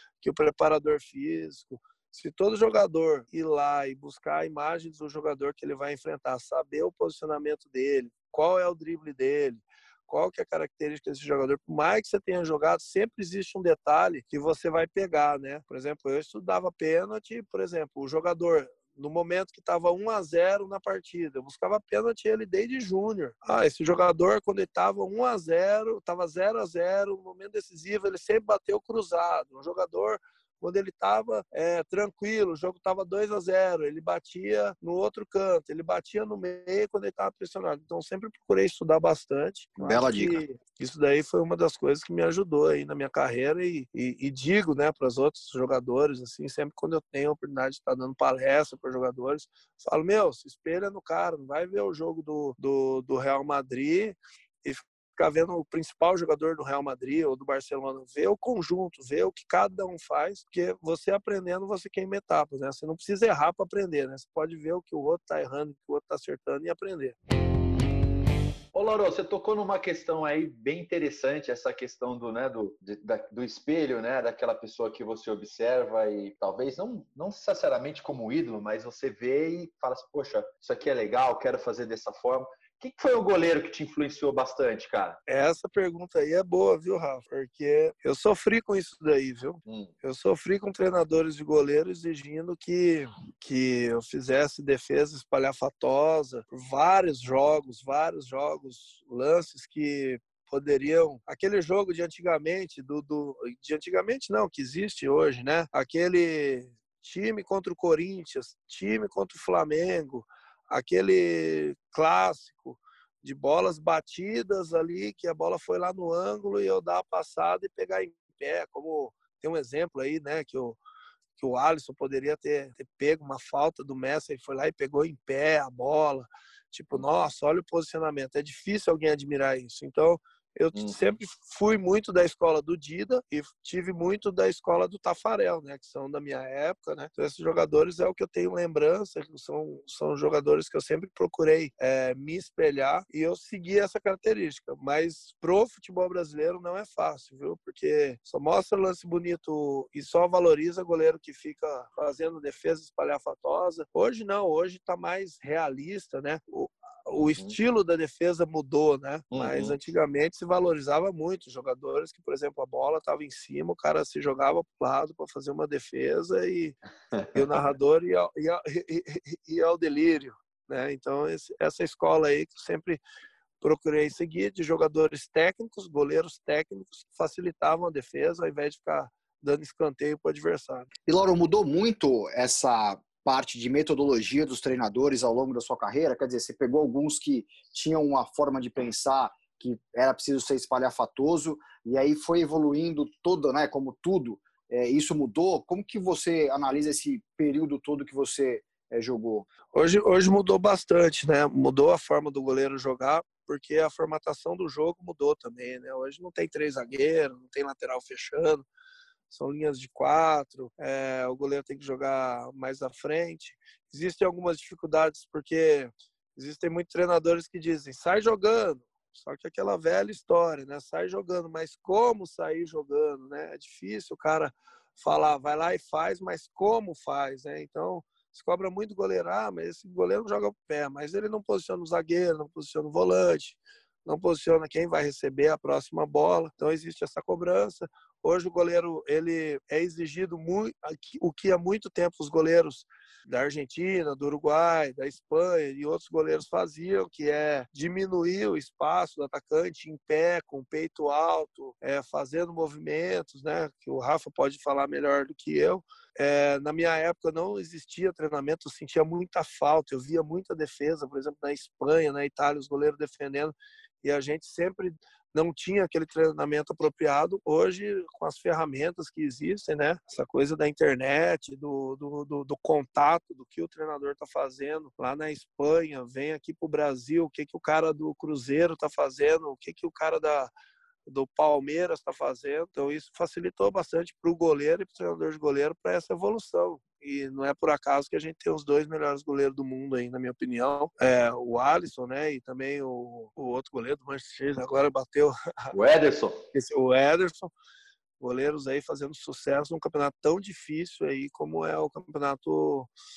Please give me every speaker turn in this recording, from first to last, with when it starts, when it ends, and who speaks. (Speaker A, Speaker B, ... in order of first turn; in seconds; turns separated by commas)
Speaker A: 0.2-67.2, Speaker B: 39.8-40.4, Speaker C: 68.7-85.2, Speaker A: 85.3-120.8, Speaker C: 89.7-89.9, Speaker A: 121.4-166.8, Speaker C: 159.3-159.8, Speaker A: 167.3-173.0, Speaker A: 173.6-180.9, Speaker B: 181.1-199.5, Speaker A: 199.7-208.7, Speaker A: 209.3-280.5, Speaker A: 281.1-295.7, Speaker C: 295.7-296.4, Speaker A: 296.5-297.5, Speaker A: 298.2-302.9